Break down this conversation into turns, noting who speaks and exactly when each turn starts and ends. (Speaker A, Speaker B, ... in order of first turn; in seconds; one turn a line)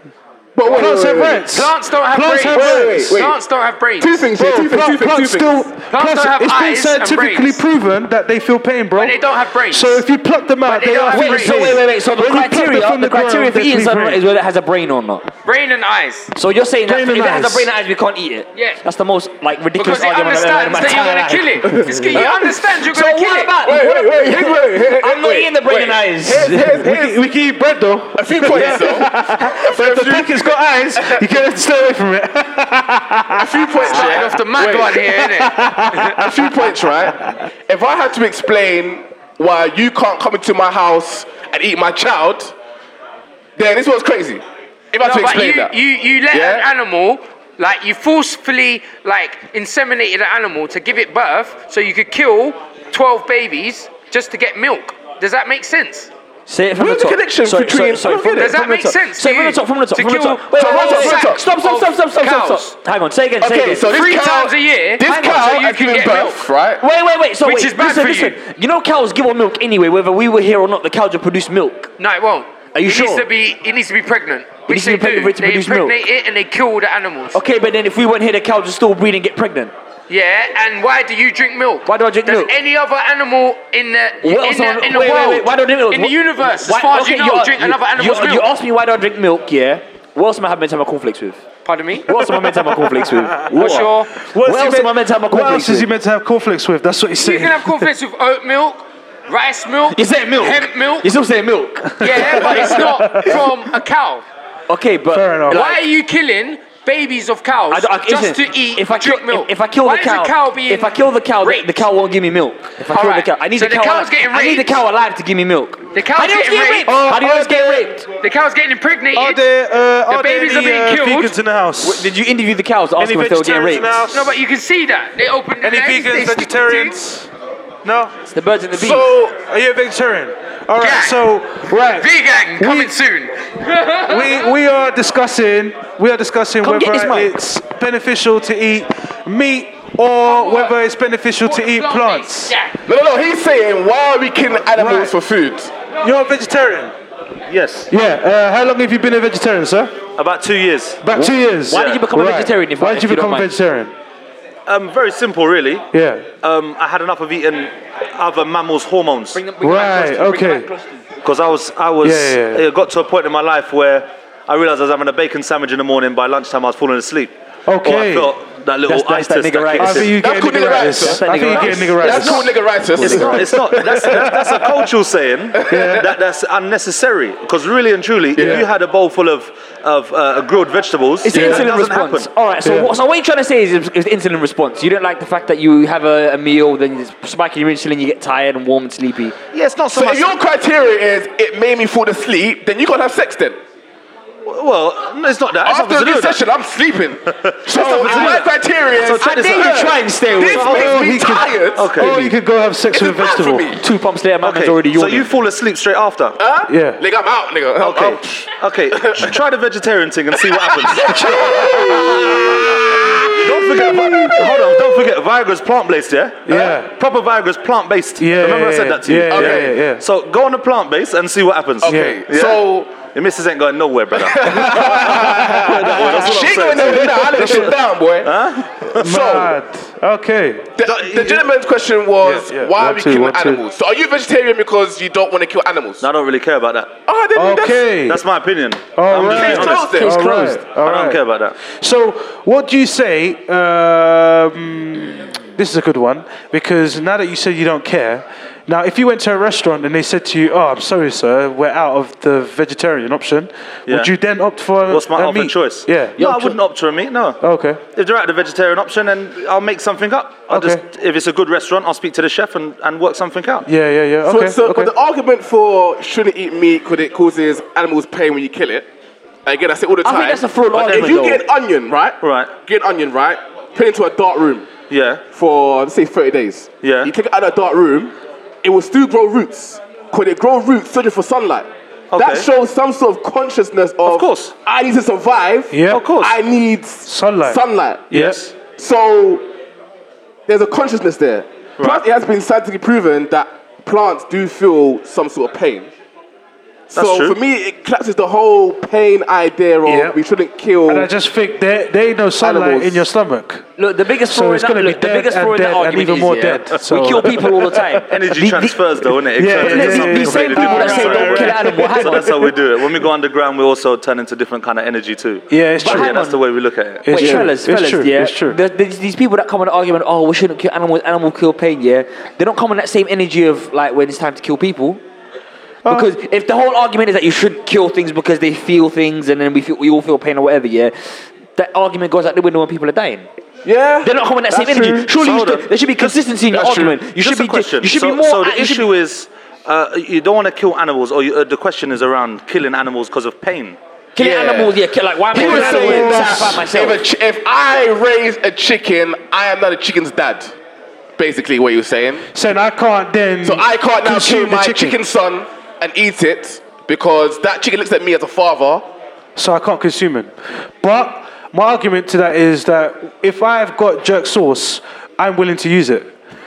Speaker A: 0.5-1.5
Speaker B: 0.6-3.2
Speaker C: 1.5-4.2
Speaker A: 2.5-3.4
Speaker A: 4.0-5.7
Speaker B: 4.3-14.2
Speaker C: 5.9-7.6
Speaker C: 8.9-10.0
Speaker C: 10.6-11.8
Speaker D: 11.1-15.3
Speaker C: 15.4-16.3
Speaker D: 16.4-22.3
Speaker B: 16.8-17.7
Speaker C: 18.5-18.8
Speaker C: 19.8-23.6
Speaker A: 21.7-22.8
Speaker D: 22.8-26.8
Speaker A: 23.6-27.2
Speaker B: 26.5-34.0
Speaker A: 28.1-31.3
Speaker A: 33.3-35.0
Speaker C: 33.7-35.5
Speaker B: 35.0-37.4
Speaker A: 36.0-42.5
Speaker A: 43.6-45.7
Speaker C: 45.0-56.1
Speaker A: 46.3-46.6
Speaker D: 56.5-63.9
Speaker A: 56.8-58.5
Speaker C: 58.4-62.7
Speaker A: 60.5-61.4
Speaker A: 63.4-66.8
Speaker C: 63.8-66.5
Speaker D: 65.1-65.4
Speaker D: 66.8-71.9
Speaker C: 67.4-68.4
Speaker C: 72.0-77.4
Speaker D: 72.7-73.3
Speaker D: 74.7-76.0
Speaker D: 77.3-79.7
Speaker C: 80.1-88.5
Speaker D: 81.8-82.5
Speaker D: 84.2-91.4
Speaker C: 91.6-92.1
Speaker D: 92.0-95.9
Speaker B: 92.1-97.9
Speaker C: 93.5-94.1
Speaker C: 97.2-101.1
Speaker D: 99.9-102.8
Speaker B: 102.0-103.6
Speaker C: 102.0-104.2
Speaker D: 104.7-105.8
Speaker B: 105.1-105.7
Speaker C: 105.5-111.8
Speaker D: 107.7-118.0
Speaker C: 112.9-114.8
Speaker C: 115.9-117.0
Speaker B: 116.8-117.9
Speaker C: 118.2-119.4
Speaker B: 119.1-122.2
Speaker C: 120.1-121.3
Speaker D: 121.8-124.0
Speaker B: 123.0-124.4
Speaker C: 124.1-127.0
Speaker B: 125.6-127.3
Speaker E: 127.8-128.1
Speaker D: 128.3-129.1
Speaker A: 128.7-129.3
Speaker B: 129.3-132.9
Speaker C: 130.8-131.2
Speaker C: 131.9-134.5
Speaker B: 134.0-142.6
Speaker D: 136.6-137.3
Speaker C: 140.2-140.7
Speaker C: 141.4-142.8
Speaker A: 142.9-145.7
Speaker B: 144.7-145.1
Speaker B: 146.0-146.9
Speaker E: 147.5-147.9
Speaker B: 147.9-150.0
Speaker E: 150.2-152.0
Speaker B: 151.0-153.9
Speaker D: 151.2-153.5
Speaker E: 154.7-155.9
Speaker B: 155.9-156.3
Speaker E: 156.4-159.4
Speaker D: 159.3-161.0
Speaker B: 159.6-160.7
Speaker E: 161.2-170.2
Speaker B: 162.0-162.6
Speaker B: 167.7-168.3
Speaker D: 168.8-170.1
Speaker B: 169.8-172.5
Speaker A: 170.2-171.4
Speaker D: 170.9-173.4
Speaker E: 171.4-182.3
Speaker A: 172.0-174.3
Speaker B: 173.0-174.7
Speaker A: 175.5-176.1
Speaker B: 175.7-176.1
Speaker A: 178.3-178.6
Speaker B: 178.4-178.7
Speaker D: 181.2-189.4
Speaker A: 181.3-181.7
Speaker B: 182.6-182.9
Speaker E: 189.5-190.4
Speaker A: 189.9-193.6
Speaker E: 194.4-196.4
Speaker A: 195.6-202.3
Speaker E: 197.3-202.3
Speaker D: 197.8-198.4
Speaker D: 199.2-200.8
Speaker B: 200.7-203.8
Speaker A: 202.9-203.8
Speaker D: 203.8-205.3
Speaker E: 204.4-206.4
Speaker A: 206.4-209.3
Speaker B: 206.7-207.0
Speaker E: 207.8-229.1
Speaker A: 210.4-213.3
Speaker B: 210.9-214.6
Speaker B: 216.4-216.9
Speaker A: 216.5-216.7
Speaker B: 218.2-220.0
Speaker A: 219.3-219.7
Speaker A: 221.8-222.9
Speaker B: 221.8-222.2
Speaker A: 224.1-229.6
Speaker B: 224.4-226.7
Speaker B: 229.0-231.4
Speaker A: 230.8-236.0
Speaker B: 232.2-233.6
Speaker E: 236.0-236.9
Speaker A: 237.1-237.9
Speaker B: 237.3-238.2
Speaker E: 238.1-240.1
Speaker B: 238.9-256.2
Speaker A: 239.1-240.7
Speaker E: 240.7-241.6
Speaker E: 253.9-254.1
Speaker E: 254.9-257.4
Speaker D: 256.2-256.6
Speaker B: 257.4-257.8
Speaker E: 257.9-263.7
Speaker B: 260.5-260.8
Speaker B: 263.6-264.9
Speaker A: 264.2-268.9
Speaker A: 269.4-274.7
Speaker D: 270.0-271.4
Speaker E: 270.7-271.3
Speaker E: 272.2-272.5
Speaker E: 274.9-275.2
Speaker A: 275.3-289.4
Speaker E: 276.8-277.1
Speaker E: 282.1-282.5
Speaker E: 284.0-284.5
Speaker B: 285.7-286.0
Speaker E: 285.9-286.4
Speaker B: 287.1-287.6
Speaker E: 288.1-288.5
Speaker B: 288.1-288.4
Speaker A: 290.5-295.9
Speaker E: 291.8-292.0
Speaker A: 296.9-301.1
Speaker E: 296.9-297.4
Speaker B: 299.8-300.2
Speaker B: 300.9-303.7
Speaker A: 302.4-303.1
Speaker D: 303.8-312.4
Speaker B: 304.2-308.1
Speaker E: 308.1-317.5
Speaker B: 309.4-312.5
Speaker B: 315.5-316.1
Speaker D: 315.8-316.4
Speaker B: 317.0-318.6
Speaker D: 317.1-325.0
Speaker B: 325.8-326.1
Speaker D: 325.8-333.3
Speaker A: 333.6-335.2
Speaker D: 334.0-338.9
Speaker E: 335.1-343.8
Speaker D: 344.1-347.0
Speaker A: 344.2-344.8
Speaker A: 345.3-350.5
Speaker B: 345.3-346.6
Speaker A: 351.2-352.2
Speaker B: 352.3-355.0
Speaker A: 353.4-358.9
Speaker B: 359.4-366.1